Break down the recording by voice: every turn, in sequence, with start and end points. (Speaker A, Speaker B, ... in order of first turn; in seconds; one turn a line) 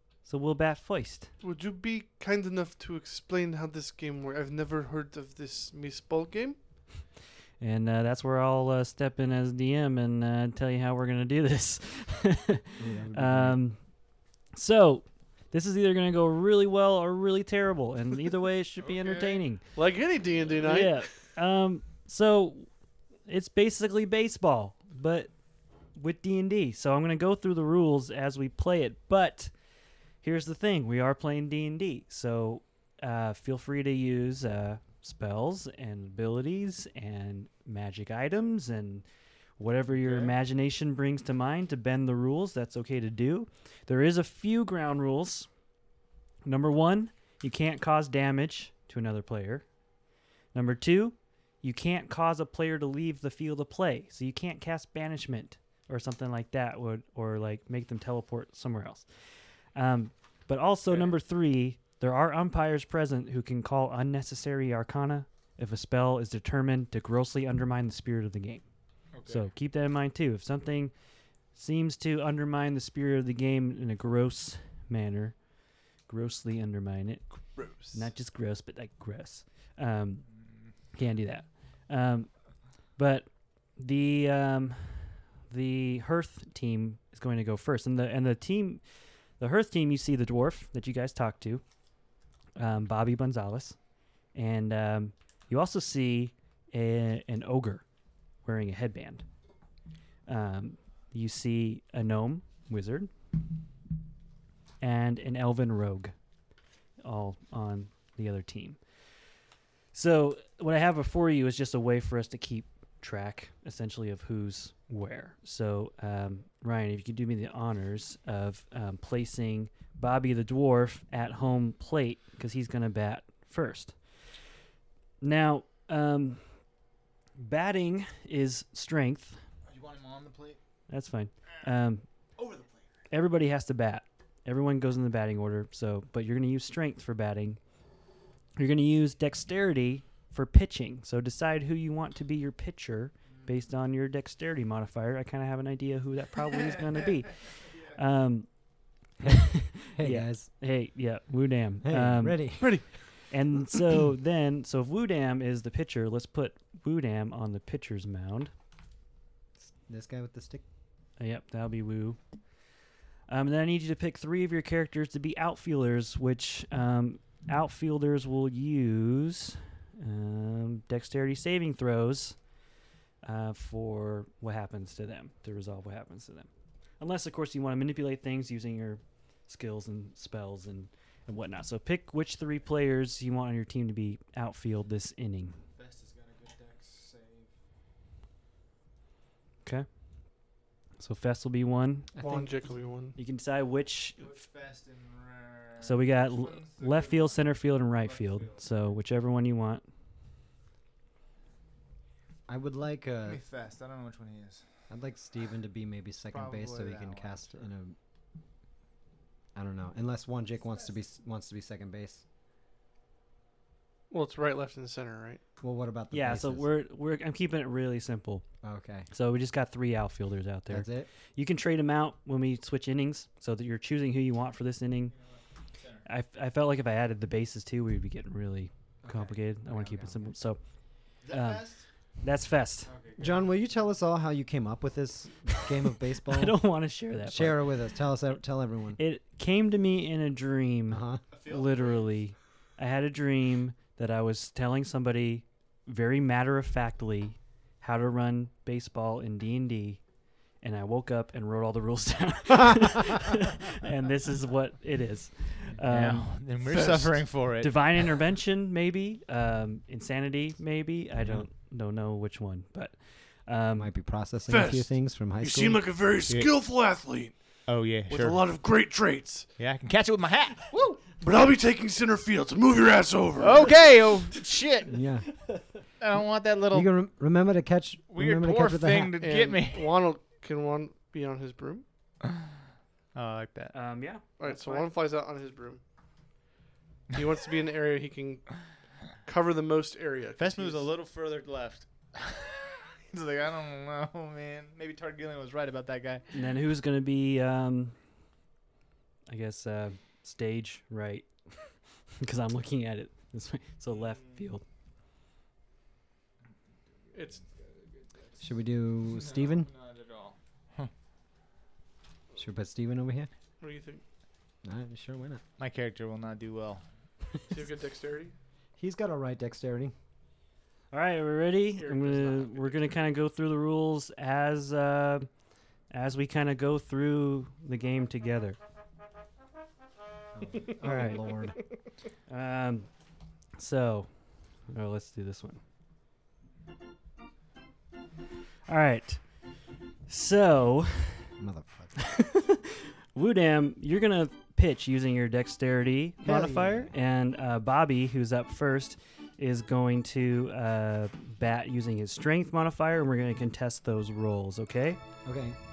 Speaker A: 0.2-1.3
Speaker B: 1.4-6.6
Speaker A: 7.6-13.8
Speaker C: 12.8-13.6
Speaker A: 14.5-19.6
Speaker D: 18.8-19.4
Speaker B: 19.8-21.1
Speaker A: 20.6-22.7
Speaker A: 23.3-25.3
Speaker A: 26.0-29.5
Speaker A: 30.2-39.0
Speaker A: 39.6-45.5
Speaker D: 40.0-40.3
Speaker A: 46.5-49.7
Speaker A: 50.5-68.7
Speaker D: 60.9-61.1
Speaker D: 69.1-69.5
Speaker A: 69.3-70.9
Speaker A: 71.5-75.4
Speaker A: 76.1-80.3
Speaker A: 80.9-82.3
Speaker A: 83.0-88.8
Speaker A: 89.4-91.6
Speaker A: 92.6-93.8
Speaker A: 94.3-97.8
Speaker A: 98.4-99.2
Speaker A: 100.3-103.1
Speaker A: 104.8-106.1
Speaker A: 107.0-108.8
Speaker A: 109.9-124.0
Speaker A: 125.2-126.5
Speaker A: 127.4-129.4
Speaker D: 129.7-130.6
Speaker A: 130.9-132.1
Speaker D: 132.4-132.9
Speaker A: 133.1-137.6
Speaker A: 138.6-148.6
Speaker A: 149.2-152.8
Speaker C: 149.2-150.5
Speaker C: 151.8-152.8
Speaker A: 153.3-158.5
Speaker C: 159.6-160.6
Speaker A: 161.2-162.2
Speaker A: 163.3-172.4
Speaker A: 173.2-176.5
Speaker A: 177.0-185.6
Speaker D: 185.6-187.5
Speaker A: 191.0-192.1
Speaker C: 192.1-192.5
Speaker B: 192.2-193.2
Speaker A: 193.2-194.3
Speaker D: 194.2-197.4
Speaker A: 195.8-199.8
Speaker D: 198.0-198.7
Speaker C: 202.5-203.4
Speaker D: 203.3-204.7
Speaker C: 204.9-207.9
Speaker D: 206.3-207.7
Speaker C: 209.6-212.2
Speaker B: 214.1-215.4
Speaker C: 215.6-216.7
Speaker A: 216.1-218.4
Speaker C: 218.6-219.1
Speaker A: 219.1-225.1
Speaker C: 220.7-221.1
Speaker D: 225.1-226.1
Speaker A: 226.1-230.6
Speaker C: 229.0-230.3
Speaker D: 231.2-231.9
Speaker A: 231.3-231.7
Speaker A: 232.2-232.9
Speaker D: 232.9-233.4
Speaker C: 233.2-236.6
Speaker A: 236.3-237.7
Speaker C: 237.2-239.0
Speaker A: 239.0-250.0
Speaker C: 240.9-241.2
Speaker D: 241.3-242.1
Speaker A: 250.6-256.4
Speaker C: 252.8-253.3
Speaker D: 255.9-257.9
Speaker E: 256.7-257.2
Speaker A: 257.6-263.9
Speaker C: 263.8-266.0
Speaker E: 264.5-267.4
Speaker D: 266.3-266.5
Speaker D: 267.7-268.5
Speaker E: 268.1-269.5
Speaker D: 269.6-271.1
Speaker E: 271.1-273.9
Speaker D: 273.4-274.9
Speaker C: 274.9-275.3
Speaker A: 275.4-275.8
Speaker D: 276.0-276.9
Speaker C: 276.7-279.2
Speaker D: 278.1-279.9
Speaker B: 279.2-281.9
Speaker D: 283.1-283.7
Speaker A: 283.7-284.9
Speaker B: 284.4-285.8
Speaker B: 287.1-288.6
Speaker B: 289.2-290.9
Speaker D: 290.4-296.3
Speaker A: 296.3-298.0
Speaker A: 299.3-301.3
Speaker A: 302.2-304.6
Speaker D: 303.9-304.4
Speaker D: 307.0-308.5
Speaker B: 307.1-307.4
Speaker C: 308.4-309.7
Speaker D: 309.1-310.9
Speaker C: 312.3-313.3
Speaker B: 313.6-314.0
Speaker C: 314.6-315.4
Speaker D: 315.6-316.8
Speaker B: 317.5-318.4
Speaker C: 318.8-319.9
Speaker A: 320.9-325.3
Speaker D: 321.8-322.9
Speaker A: 325.9-328.6
Speaker C: 330.3-331.6
Speaker A: 330.8-331.4
Speaker A: 332.3-332.9
Speaker A: 333.6-335.6
Speaker A: 338.7-339.2
Speaker A: 340.1-341.3
Speaker C: 341.4-342.0
Speaker A: 342.0-355.0
Speaker C: 346.2-346.9
Speaker C: 355.2-355.6